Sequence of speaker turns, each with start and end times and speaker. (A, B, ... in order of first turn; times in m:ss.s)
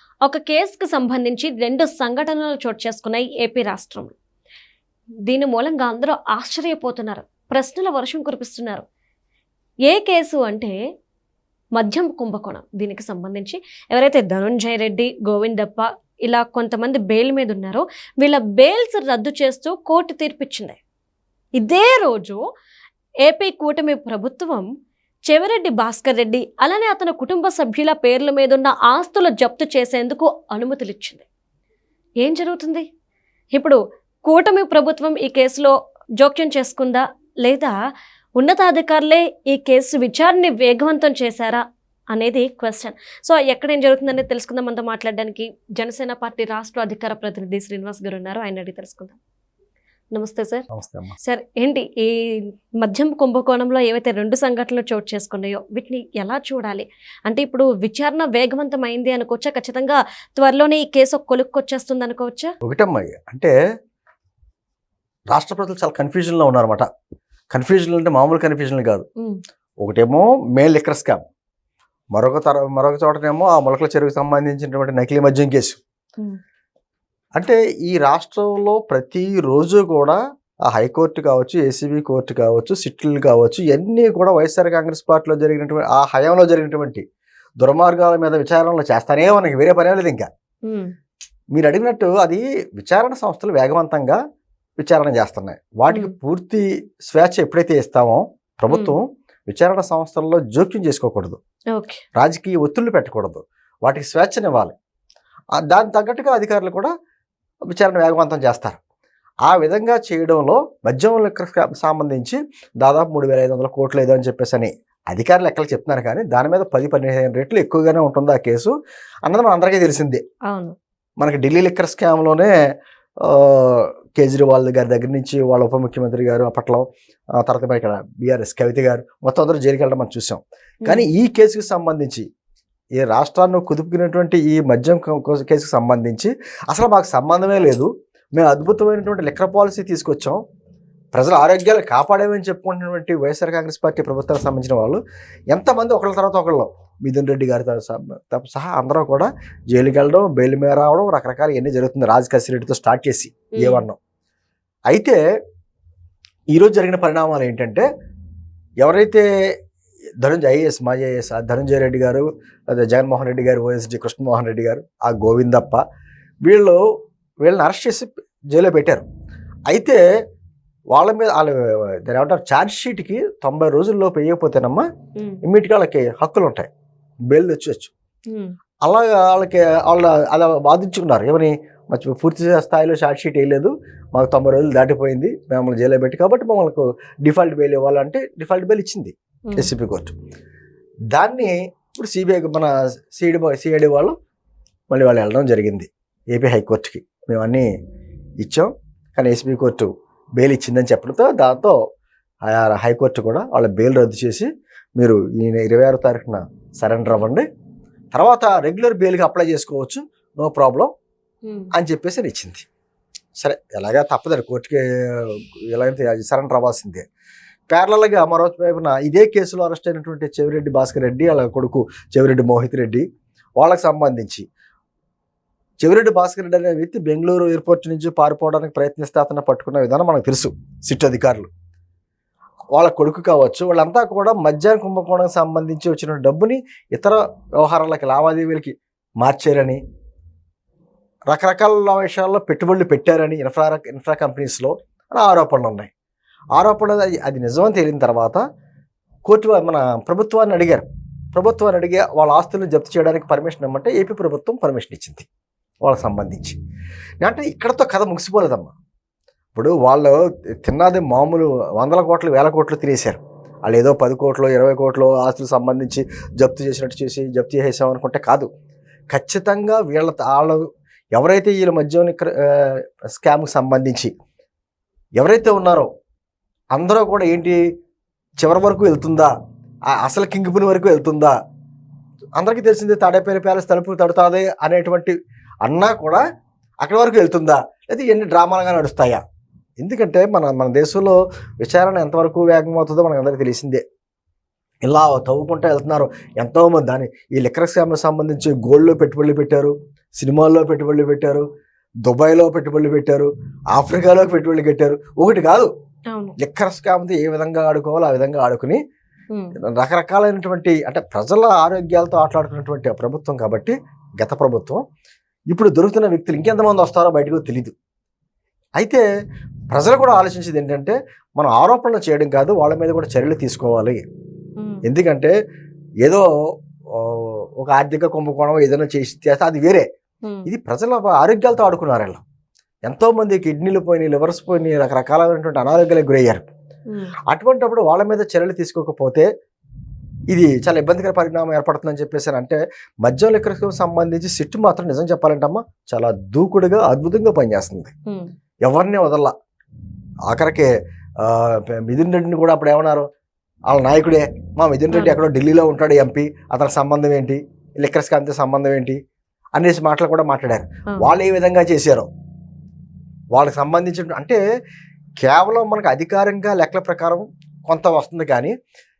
0:00.2-0:04.1 A
0:05.2-0:08.8 A
0:09.9-0:10.7 A
0:11.8-0:20.8 A
0:21.6-0:22.4 A
0:23.2-0:24.7 A
0:25.3-0:31.2 A
0:32.2-0:32.8 A
0:33.5-0:37.7 A
0:38.4-0:41.6 A
0:42.1-0:49.2 A
0:50.1-0:50.6 A
0:50.7-0:51.2 B
0:51.2-0:52.2 A
0:52.8-1:02.5 A
1:02.6-1:03.5 B
1:05.3-1:06.8 B
1:07.5-1:09.0 B
1:09.8-1:11.2 B
1:12.1-1:15.8 B
1:17.4-1:27.0 B
1:27.6-1:30.3 B
1:30.6-1:30.9 A
1:31.5-1:34.2 B
1:34.8-1:41.4 B
1:38.7-1:39.0 A
1:41.7-1:42.0 A
1:42.2-1:44.7 B
1:45.6-1:46.9 B
1:47.7-1:48.8 B
1:49.4-1:58.7 B
1:59.2-2:00.2 B
2:00.5-2:00.7 A
2:01.2-2:02.5 B
2:03.2-2:06.8 B
2:07.4-2:12.2 B
2:13.0-2:20.4 B
2:21.1-2:34.0 B
2:33.6-2:33.8 A
2:34.9-2:35.2 B
2:36.5-2:37.8 B
2:38.8-2:39.2 B
2:40.2-2:45.8 B
2:46.4-2:46.8 B
2:47.4-2:49.0 B
2:49.7-2:50.0 B
2:50.9-2:54.8 B
2:55.4-2:56.7 B
2:57.3-2:57.9 B
2:58.8-3:10.1 B
3:11.1-3:14.1 B
3:14.9-3:17.7 B
3:18.4-3:21.7 B
3:22.5-3:27.4 B
3:28.1-3:30.9 B
3:31.4-3:31.7 A
3:31.7-3:32.6 B
3:33.4-3:37.0 B
3:37.7-3:43.0 B
3:43.6-3:44.4 B
3:45.8-3:51.5 B
3:52.7-3:59.8 B
4:01.3-4:05.9 B
4:06.5-4:08.4 B
4:09.2-4:15.3 B
4:15.8-4:16.6 B
4:17.2-4:18.7 B
4:19.5-4:28.5 B
4:29.1-4:30.6 B
4:31.1-4:34.1 B
4:35.2-4:35.9 B
4:36.7-4:37.6 B
4:38.4-4:39.3 B
4:39.9-4:41.3 B
4:42.4-4:46.2 B
4:46.8-4:49.2 B
4:49.8-4:53.8 B
4:54.8-5:01.4 B
5:02.0-5:05.7 B
5:06.4-5:08.8 B
5:09.6-5:14.8 B
5:15.5-5:17.7 B
5:18.8-5:19.0 B
5:19.7-5:24.0 B
5:24.6-5:24.8 A
5:24.8-5:25.3 B
5:26.9-5:29.8 B
5:30.4-5:32.2 B
5:32.9-5:36.5 B
5:37.3-5:39.2 B
5:40.3-5:47.9 B
5:48.6-5:49.3 B
5:50.3-5:50.7 B
5:51.2-5:53.0 B
5:53.7-5:59.0 B
5:54.9-5:55.2 A
5:59.6-6:02.1 B
6:03.3-6:04.4 B
6:05.2-6:08.5 B